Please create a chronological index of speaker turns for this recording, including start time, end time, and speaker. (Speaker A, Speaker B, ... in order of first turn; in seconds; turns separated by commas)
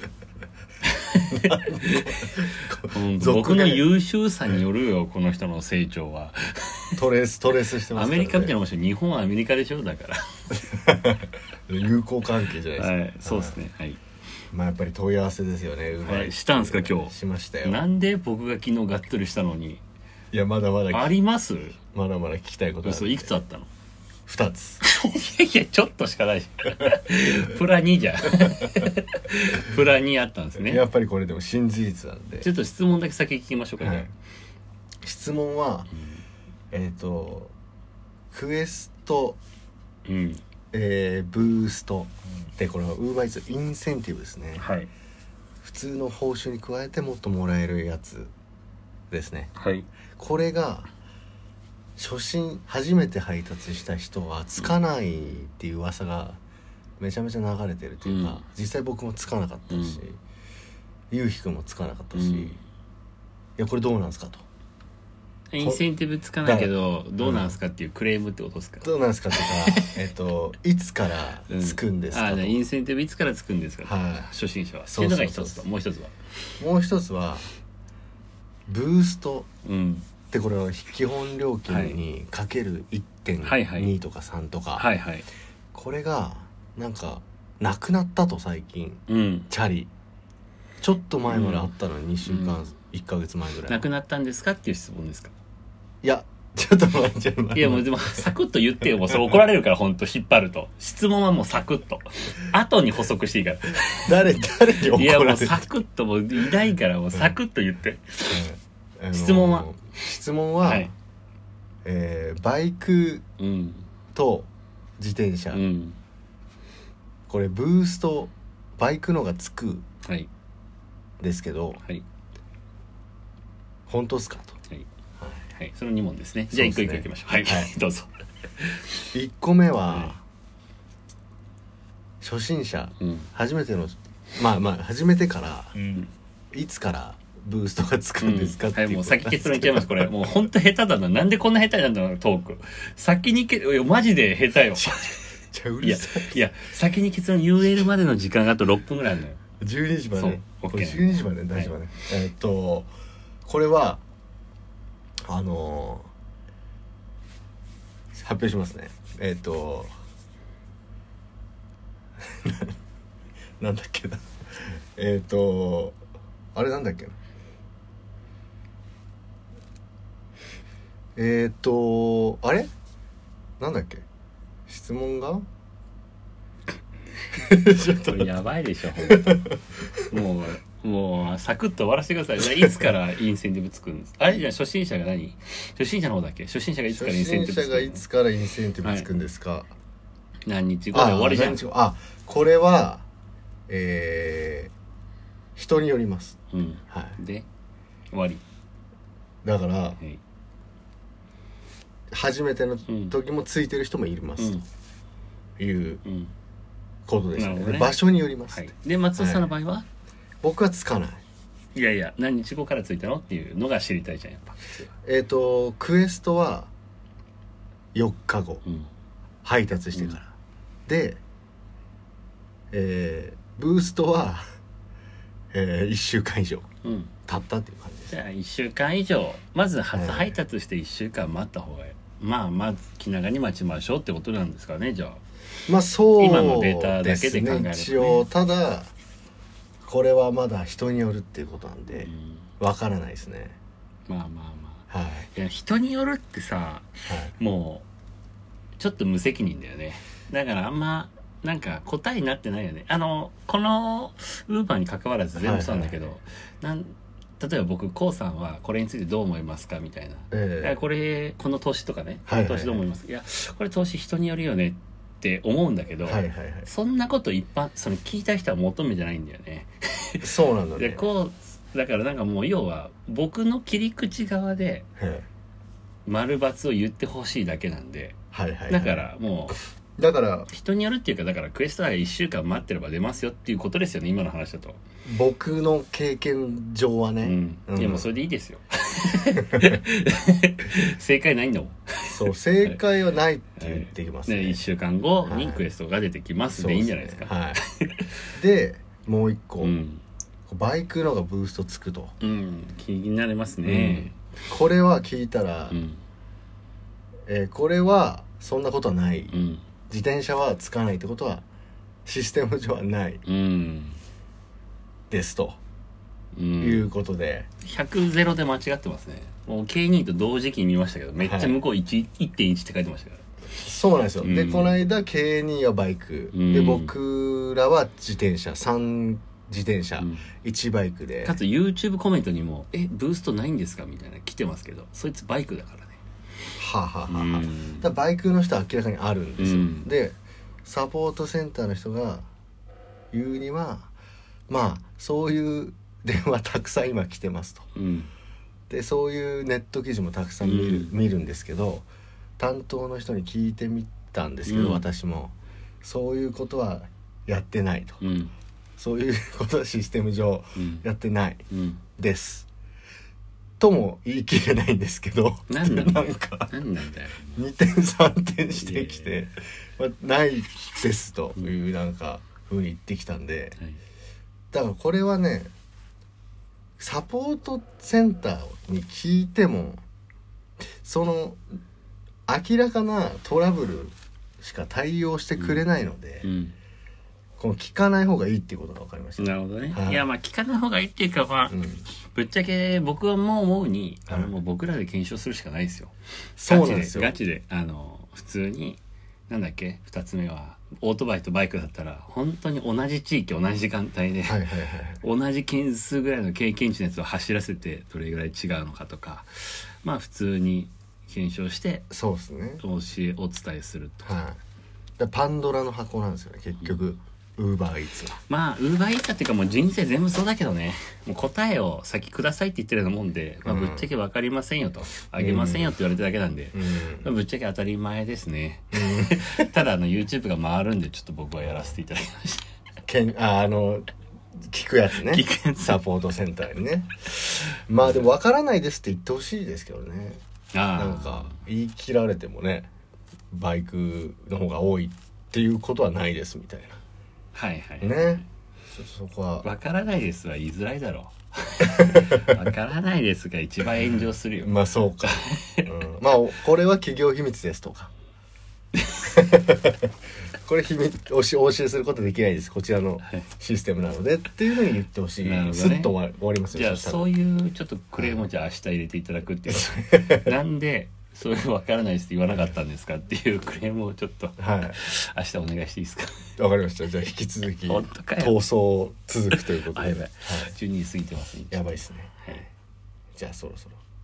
Speaker A: 0.8-7.0, Speaker B: 1.3-3.9, Speaker B: 7.0-8.6, Speaker A: 7.9-10.2, Speaker B: 10.7-13.6, Speaker A: 12.8-14.0, Speaker B: 14.5-17.8, Speaker A: 16.0-19.8, Speaker B: 20.3-21.1, Speaker A: 20.9-21.8, Speaker B: 21.9-23.3, Speaker A: 22.8-23.7, Speaker B: 24.3-24.8, Speaker A: 24.8-30.8, Speaker B: 28.4-28.7, Speaker B: 30.6-32.5, Speaker A: 32.4-34.1, Speaker B: 33.8-34.1, Speaker B: 35.0-35.9, Speaker A: 36.0-36.2, Speaker B: 36.7-37.5, Speaker B: 38.3-39.4, Speaker A: 40.1-40.4, Speaker B: 40.7-44.7, Speaker A: 44.6-44.9, Speaker B: 45.6-48.3, Speaker B: 49.1-49.5, Speaker A: 49.6-49.9, Speaker B: 50.2-50.9, Speaker B: 52.0-56.4, Speaker B: 57.0-60.2, Speaker A: 58.0-58.4, Speaker A: 59.7-60.0, Speaker B: 61.1-62.6, Speaker A: 62.1-62.6, Speaker B: 63.6-64.5, Speaker A: 65.5-69.9, Speaker B: 65.6-65.8, Speaker B: 66.4-67.6, Speaker B: 68.8-72.6, Speaker A: 71.5-76.2, Speaker B: 73.8-74.3, Speaker B: 74.9-75.7, Speaker B: 76.6-77.5, Speaker B: 78.7-79.5, Speaker A: 79.7-80.1, Speaker B: 80.3-84.9, Speaker A: 81.7-82.0, Speaker A: 83.4-83.9, Speaker A: 84.8-85.3, Speaker B: 85.7-89.9, Speaker A: 89.1-89.5, Speaker B: 90.8-93.9, Speaker A: 91.3-91.7, Speaker A: 92.3-92.7, Speaker A: 93.7-95.3, Speaker B: 96.0-98.3, Speaker A: 97.5-104.3, Speaker B: 104.0-105.6, Speaker A: 104.9-108.4, Speaker B: 108.3-110.9, Speaker A: 109.1-109.8, Speaker A: 110.6-110.9, Speaker B: 111.8-113.2, Speaker A: 113.4-113.9, Speaker B: 114.2-114.5, Speaker B: 115.0-115.6, Speaker A: 115.5-116.0, Speaker B: 117.3-119.8, Speaker B: 121.2-121.8, Speaker B: 123.9-124.6, Speaker B: 125.2-125.5, Speaker A: 125.5-128.9, Speaker B: 126.5-127.7, Speaker B: 129.1-130.2, Speaker B: 132.2-135.8, Speaker A: 133.0-133.3, Speaker A: 135.8-136.1, Speaker B: 136.5-140.4, Speaker A: 138.2-145.2, Speaker B: 144.8-146.5, Speaker A: 145.8-149.4, Speaker B: 149.6-152.9, Speaker A: 150.2-151.7, Speaker B: 153.4-154.0, Speaker B: 155.3-156.1, Speaker B: 158.1-159.9, Speaker B: 162.3-162.8, Speaker B: 163.6-166.0, Speaker B: 166.5-167.2, Speaker B: 171.2-172.7, Speaker B: 173.6-174.1, Speaker B: 174.7-175.4, Speaker B: 177.3-178.3, Speaker A: 177.9-179.4, Speaker B: 179.0-180.2, Speaker A: 180.1-188.0, Speaker B: 182.6-182.9, Speaker B: 186.9-189.7, Speaker A: 188.8-189.1, Speaker A: 190.5-191.6, Speaker B: 190.9-193.1, Speaker B: 193.7-194.7, Speaker B: 195.6-196.4, Speaker A: 196.5-197.5, Speaker B: 196.9-197.2, Speaker A: 198.1-198.4, Speaker B: 199.4-200.0, Speaker B: 202.1-204.6, Speaker A: 202.9-203.1, Speaker A: 204.4-204.7, Speaker B: 205.6-206.0, Speaker A: 206.1-206.3, Speaker B: 207.1-209.5, Speaker A: 207.4-207.9, Speaker A: 208.5-209.9, Speaker B: 210.4-211.2, Speaker A: 211.8-214.9, Speaker B: 215.0-216.7, Speaker B: 217.9-218.6, Speaker B: 219.4-220.3, Speaker B: 220.9-221.2, Speaker B: 222.7-224.4, Speaker B: 225.5-226.7, Speaker A: 226.8-227.1, Speaker B: 227.3-228.2, Speaker A: 228.1-235.2, Speaker B: 229.9-230.3, Speaker B: 235.7-238.9, Speaker A: 236.2-238.3, Speaker B: 239.8-243.6, Speaker A: 241.9-242.5, Speaker A: 244.1-247.9, Speaker B: 244.9-245.3, Speaker B: 247.1-247.3, Speaker A: 248.8-270.3, Speaker B: 255.4-256.0, Speaker B: 260.3-260.8, Speaker B: 262.3-262.9, Speaker B: 266.0-266.7, Speaker B: 270.2-271.1, Speaker A: 270.8-274.9, Speaker B: 275.0-275.3, Speaker A: 276.1-278.2, Speaker B: 278.3-279.1, Speaker A: 278.7-279.6, Speaker B: 280.0-280.5, Speaker A: 280.5-284.8, Speaker B: 285.1-288.1, Speaker A: 287.2-292.1, Speaker B: 289.4-289.8, Speaker B: 292.1-294.6, Speaker A: 293.6-298.1, Speaker B: 295.3-295.6, Speaker B: 296.5-297.6, Speaker B: 298.3-299.8, Speaker A: 299.6-300.0, Speaker B: 300.5-302.1, Speaker A: 302.2-304.2, Speaker B: 303.6-305.8, Speaker A: 305.7-306.0, Speaker B: 307.3-309.4, Speaker A: 309.3-309.6, Speaker B: 309.9-311.4, Speaker B: 312.1-313.2, Speaker A: 313.3-314.0, Speaker B: 315.1-315.6, Speaker A: 316.3-316.9, Speaker B: 316.6-317.5, Speaker A: 317.6-323.2, Speaker B: 321.2-321.6, Speaker B: 323.6-331.4, Speaker A: 324.2-324.8, Speaker A: 326.3-326.9, Speaker A: 330.0-330.3, Speaker A: 331.2-336.0, Speaker B: 336.6-342.3, Speaker A: 337.1-337.9, Speaker A: 339.4-339.9, Speaker B: 343.1-343.9, Speaker B: 344.5-347.7, Speaker A: 347.8-348.1, Speaker B: 348.7-351.9, Speaker A: 350.4-350.9, Speaker B: 352.4-358.0, Speaker A: 354.5-354.8, Speaker A: 358.0-358.3, Speaker B: 358.8-361.4, Speaker A: 360.6-360.8, Speaker A: 361.5-361.8, Speaker B: 362.0-362.5, Speaker B: 363.6-366.6, Speaker A: 365.5-367.4, Speaker B: 367.4-373.6, Speaker A: 368.6-369.1, Speaker B: 374.5-375.5, Speaker B: 376.8-379.8, Speaker B: 380.8-381.4, Speaker B: 382.3-386.3, Speaker A: 386.2-386.6, Speaker B: 387.4-390.1, Speaker A: 389.2-404.4, Speaker B: 391.5-391.8, Speaker B: 394.1-394.3, Speaker B: 396.4-397.1, Speaker B: 404.3-405.0, Speaker A: 405.0-411.9, Speaker B: 411.9-412.6, Speaker A: 412.6-414.1, Speaker B: 414.0-414.4, Speaker B: 415.0-418.2, Speaker A: 418.3-432.5, Speaker B: 423.4-423.9, Speaker B: 425.2-425.8, Speaker B: 426.5-427.1, Speaker B: 428.7-429.6, Speaker B: 432.9-433.9, Speaker B: 434.4-440.2, Speaker A: 434.9-435.8, Speaker A: 440.5-441.4, Speaker B: 440.8-442.7, Speaker B: 443.3-446.8, Speaker A: 447.3-448.2, Speaker B: 447.8-449.5, Speaker A: 449.4-455.7, Speaker B: 451.7-452.4, Speaker B: 454.4-457.9, Speaker A: 458.8-459.1, Speaker B: 459.1-459.9, Speaker B: 460.4-467.0, Speaker A: 465.2-465.9, Speaker A: 466.5-476.2, Speaker B: 469.9-470.3, Speaker B: 474.4-474.8, Speaker B: 476.4-480.6, Speaker A: 477.7-478.4, Speaker A: 479.7-482.5, Speaker B: 481.5-482.4, Speaker B: 483.1-483.8